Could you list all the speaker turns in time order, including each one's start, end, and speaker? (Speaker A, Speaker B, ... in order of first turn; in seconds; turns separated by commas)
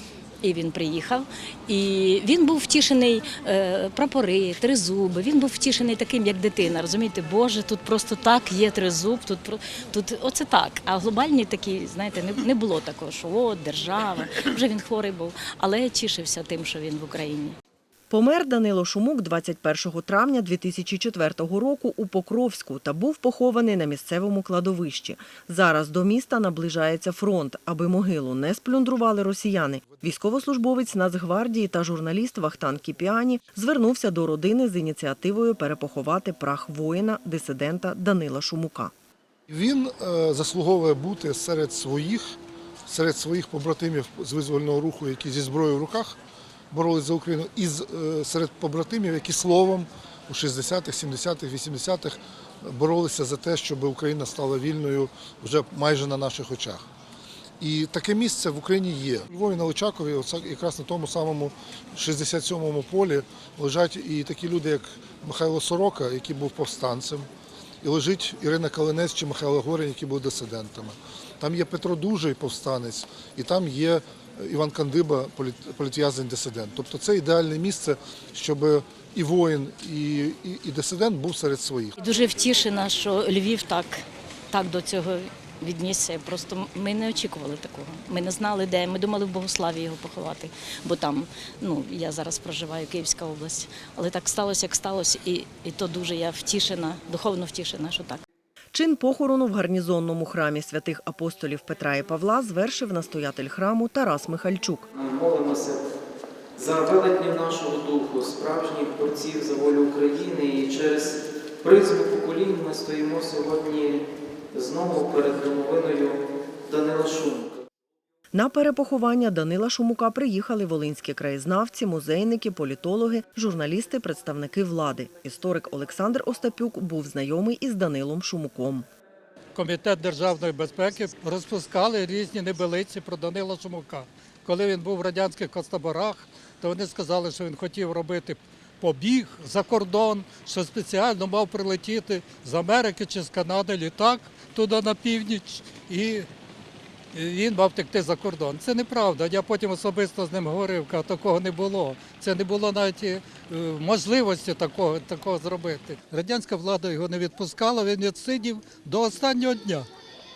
Speaker A: 0.4-17.6, Speaker B: 18.1-38.9, Speaker C: 39.5-42.3, Speaker C: 42.9-46.2, Speaker C: 46.7-56.8, Speaker C: 57.6-67.3, Speaker C: 67.8-82.0, Speaker A: 82.0-98.2, Speaker B: 98.7-104.9, Speaker D: 104.9-105.8, Speaker D: 106.5-117.6, Speaker B: 118.3-128.8, Speaker E: 129.5-146.3, Speaker E: 147.1-159.9